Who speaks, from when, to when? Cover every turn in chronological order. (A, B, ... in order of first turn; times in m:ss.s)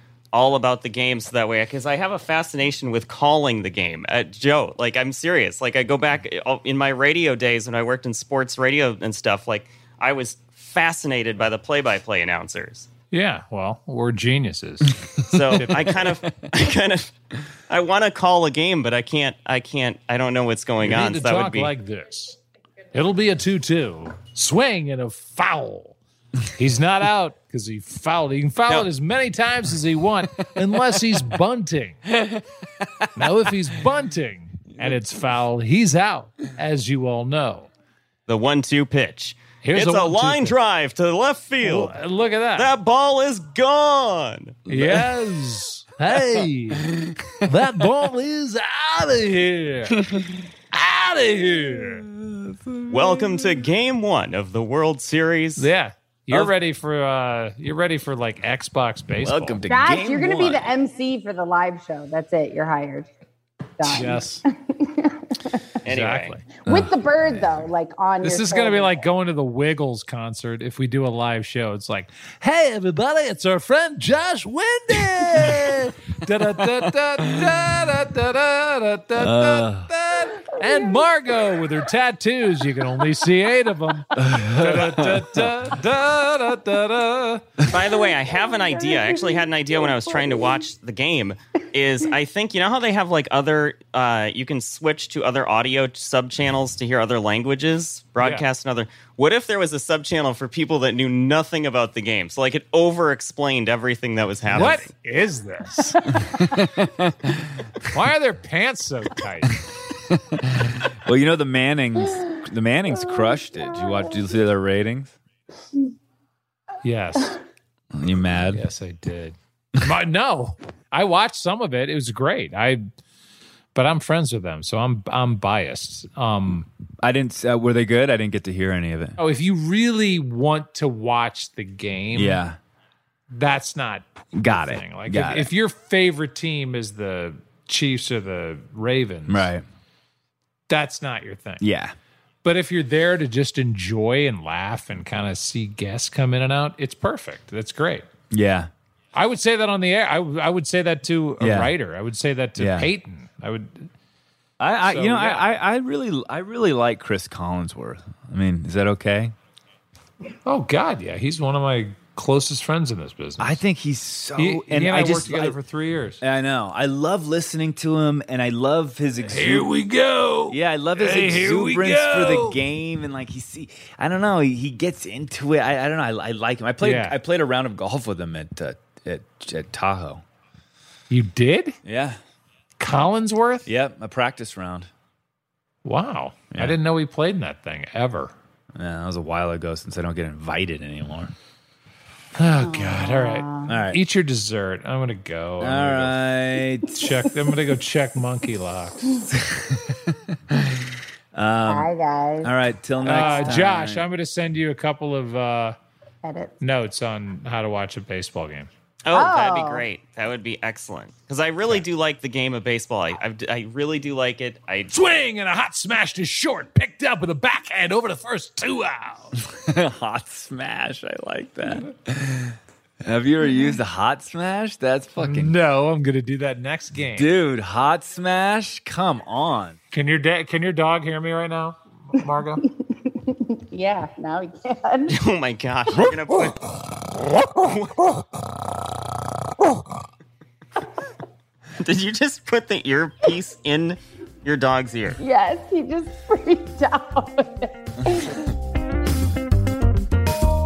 0:00.3-0:12.9 A
0:13.1-0:16.0 B
0:15.2-0:17.1 A
0:17.7-0:21.7 A
0:20.8-0:22.4 B
0:22.9-0:32.0 B
0:33.1-0:37.7 B
0:38.3-0:41.9 A
0:39.6-0:40.5 B
0:41.6-0:42.7 B
0:42.5-0:44.6 A
0:44.7-0:46.9 B
0:44.7-0:45.0 C
0:47.4-0:50.0 B
0:50.1-0:50.4 C
0:50.7-0:52.0 B
0:51.8-0:53.6 C
0:52.9-0:55.7 A
0:55.6-0:59.6 B
0:59.2-1:00.7 C
0:59.7-1:03.1 D
1:03.8-1:05.3 D
1:03.8-1:04.4 B
1:05.8-1:06.4 A
1:05.8-1:06.4 B
1:06.6-1:06.9 C
1:06.7-1:09.1 D
1:08.2-1:27.4 B
1:19.2-1:19.9 C
1:24.1-1:25.5 C
1:27.6-1:44.9 A
1:27.8-1:30.6 D
1:44.5-1:46.2 B
1:46.4-1:47.3 C
1:47.9-1:49.6 B
1:50.9-1:55.2 C
1:56.8-1:57.4 B
1:57.9-1:58.6 C
1:58.5-2:02.8 B
2:03.7-2:06.7 B
2:07.0-2:09.2 C
2:09.2-2:12.4 B
2:12.1-2:12.6 C
2:13.3-2:19.5 B
2:14.4-2:15.5 C
2:19.3-2:19.6 C
2:20.7-2:21.6 B
2:21.6-2:21.9 C
2:22.4-2:28.0 B
2:28.3-2:28.7 C
2:29.1-2:33.9 B
2:31.4-2:31.7 C
2:32.6-2:32.9 C
2:34.6-2:39.3 C
2:34.8-2:35.5 B
2:40.4-2:43.5 B
2:43.4-2:45.6 C
2:44.4-2:46.2 B
2:46.2-2:49.7 C
2:49.3-2:52.6 B
2:50.5-3:00.2 C
2:56.8-2:57.2 B
3:01.1-3:01.8 B
3:01.8-3:02.2 C
3:02.8-3:03.7 B
3:03.7-3:04.9 C
3:05.8-3:08.3 B
3:08.8-3:11.3 C
3:12.3-3:16.1 B
3:12.6-3:13.8 D
3:13.6-3:14.0 C
3:15.6-3:16.9 C
3:16.9-3:19.2 B
3:19.3-3:21.9 C
3:21.6-3:23.6 D
3:22.4-3:24.0 C
3:23.0-3:25.8 B
3:26.2-3:26.6 D
3:26.6-3:28.7 B
3:29.0-3:34.9 A
3:29.1-3:29.9 D
3:34.9-3:39.3 B
3:39.5-3:45.5 C
3:45.2-3:47.3 B
3:47.2-3:49.8 C
3:49.9-3:52.6 B
3:52.8-3:55.2 D
3:55.1-3:56.7 A
3:57.4-3:58.1 A
4:01.8-4:05.2 A
4:05.2-4:08.4 D